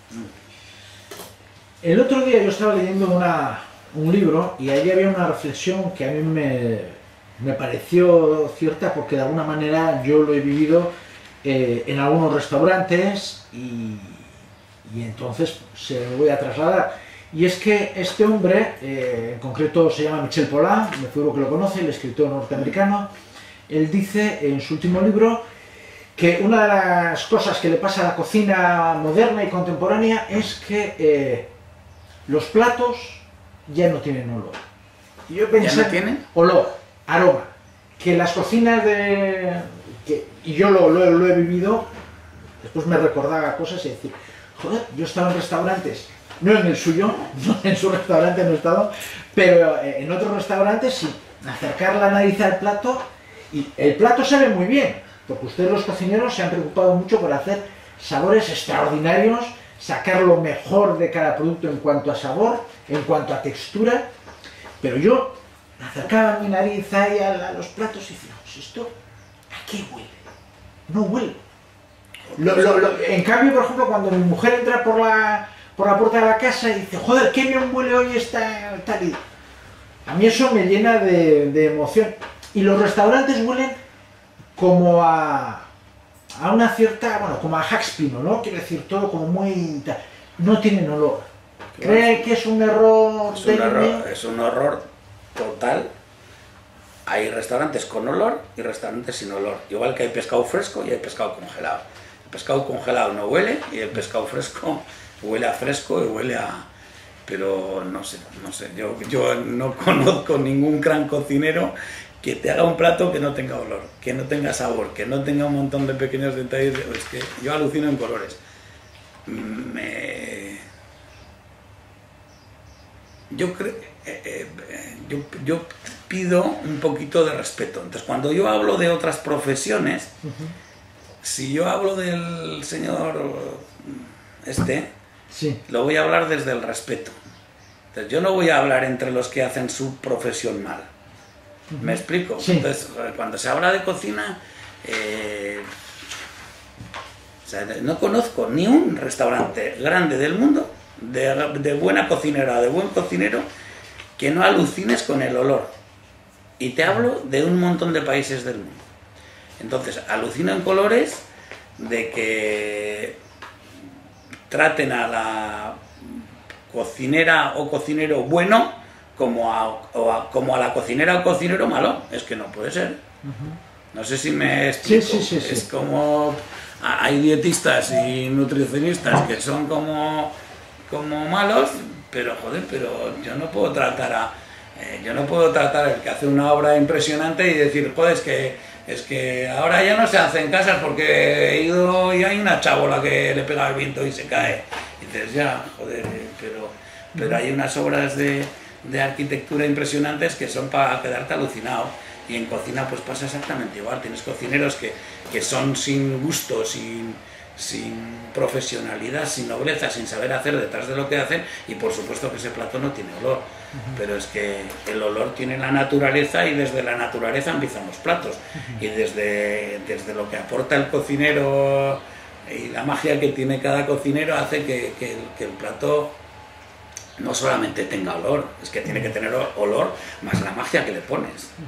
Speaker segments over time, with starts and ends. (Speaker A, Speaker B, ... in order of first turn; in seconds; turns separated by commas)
Speaker A: 1.8-14.3, Speaker A: 14.8-23.1, Speaker A: 23.7-25.4, Speaker A: 26.1-31.5, Speaker A: 32.3-34.6, Speaker A: 35.3-41.9, Speaker B: 35.5-36.2, Speaker A: 42.6-64.1, Speaker A: 64.8-68.9, Speaker A: 69.5-70.2, Speaker A: 70.9-71.4, Speaker A: 72.3-79.2, Speaker A: 80.0-83.8, Speaker A: 84.5-85.7, Speaker A: 86.4-91.3, Speaker B: 91.7-92.2, Speaker A: 91.8-94.0, Speaker B: 93.3-95.9, Speaker B: 97.0-106.7, Speaker B: 107.2-118.4, Speaker B: 119.2-120.6, Speaker B: 123.3-130.1, Speaker A: 130.2-130.5, Speaker B: 131.2-134.9, Speaker A: 135.3-135.6, Speaker B: 135.7-137.1, Speaker B: 137.9-140.9, Speaker A: 141.7-142.7, Speaker B: 141.8-145.7, Speaker B: 147.4-153.4, Speaker B: 154.2-155.7, Speaker B: 156.6-158.8, Speaker B: 159.6-161.2, Speaker B: 161.8-163.2, Speaker B: 164.5-173.0, Speaker A: 173.2-173.6, Speaker B: 173.9-180.3, Speaker A: 174.8-175.7, Speaker B: 180.9-226.1, Speaker A: 213.7-214.0, Speaker B: 227.2-231.5